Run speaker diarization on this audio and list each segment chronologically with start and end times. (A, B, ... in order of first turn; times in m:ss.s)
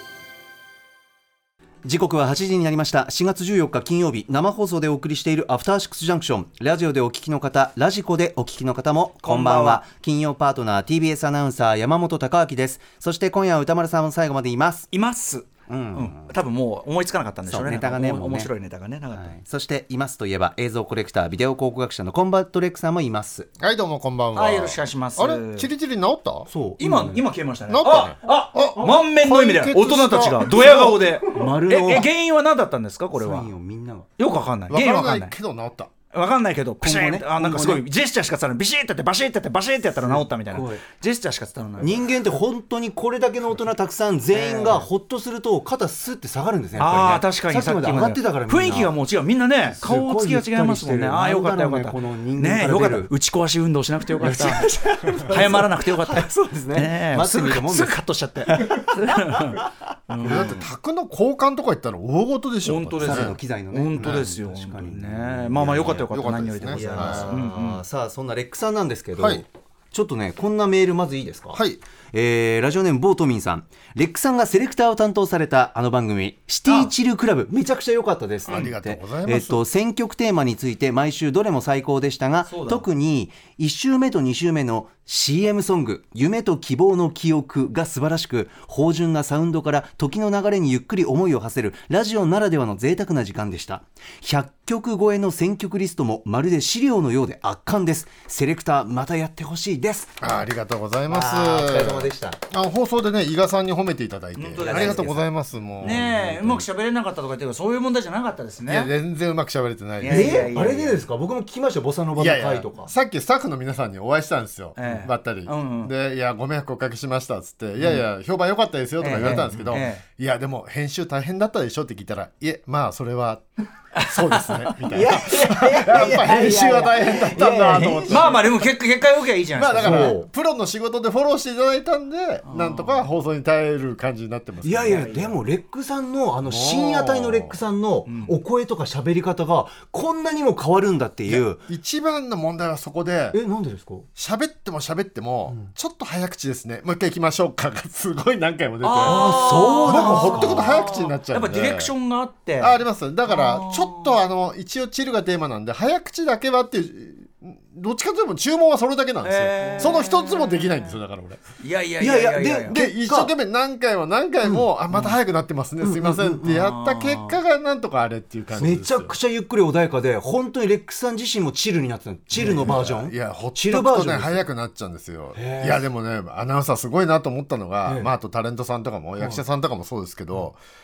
0:01.8-0:14.9 A
0:09.2-0:09.8 B
0:14.9-0:19.3 B
0:15.7-0:16.3 A
0:17.5-0:18.5 A
0:19.1-0:23.5 A
0:23.6-0:26.5 C
0:24.3-0:25.7 B
0:26.5-0:27.2 A
0:26.8-0:33.5 B
0:27.7-0:30.9 C
0:30.5-0:32.1 A
0:33.1-0:34.1 A
0:34.2-0:35.3 B
0:34.7-0:35.9 C
0:36.1-0:42.1 B
0:36.8-0:37.8 A
0:39.8-0:40.8 A
0:41.8-0:48.9 A
0:44.3-0:44.9 B
0:46.8-0:54.7 B
0:49.6-0:53.1 A
0:54.2-0:58.0 A
0:55.2-1:00.6 B
0:58.5-0:59.6 A
1:00.2-1:00.6 A
1:00.2-1:03.4 C
1:02.6-1:07.8 B
1:03.0-1:06.1 A
1:04.0-1:04.3 C
1:05.6-1:07.4 C
1:06.7-1:40.2 A
1:09.2-1:09.4 C
1:11.5-1:11.8 C
1:16.7-1:16.9 B
1:18.4-1:19.7 C
1:22.4-1:22.9 B
1:40.2-1:46.6 C
1:41.1-1:42.4 A
1:44.4-1:45.2 B
1:44.6-1:45.2 A
1:45.8-1:48.9 B
1:48.7-1:50.5 C
1:50.0-1:51.1 B
1:50.0-1:52.9 A
1:52.2-2:08.6 C
1:54.8-1:55.9 B
1:59.0-2:00.0 B
1:59.2-1:59.6 A
2:04.0-2:04.9 B
2:04.9-2:08.4 A
2:06.0-2:06.3 B
2:07.7-2:10.2 B
2:09.5-2:15.1 C
2:09.8-2:10.3 A
2:12.4-2:13.0 B
2:14.6-2:21.6 A
2:14.8-2:15.4 B
2:16.4-2:17.6 C
2:18.1-2:18.4 B
2:21.2-2:23.4 C
2:23.3-2:24.1 A
2:24.2-2:31.9 C
2:28.8-2:34.1 B
2:29.0-2:30.8 A
2:32.6-2:41.4 C
2:39.2-2:40.9 B
2:41.6-2:42.8 B
2:42.0-2:43.3 A
2:42.7-2:49.1 C
2:45.8-2:46.4 A
2:46.4-2:47.4 B
2:48.5-2:54.4 A
2:52.3-3:00.6 C
2:55.3-2:55.9 A
2:57.8-2:58.1 A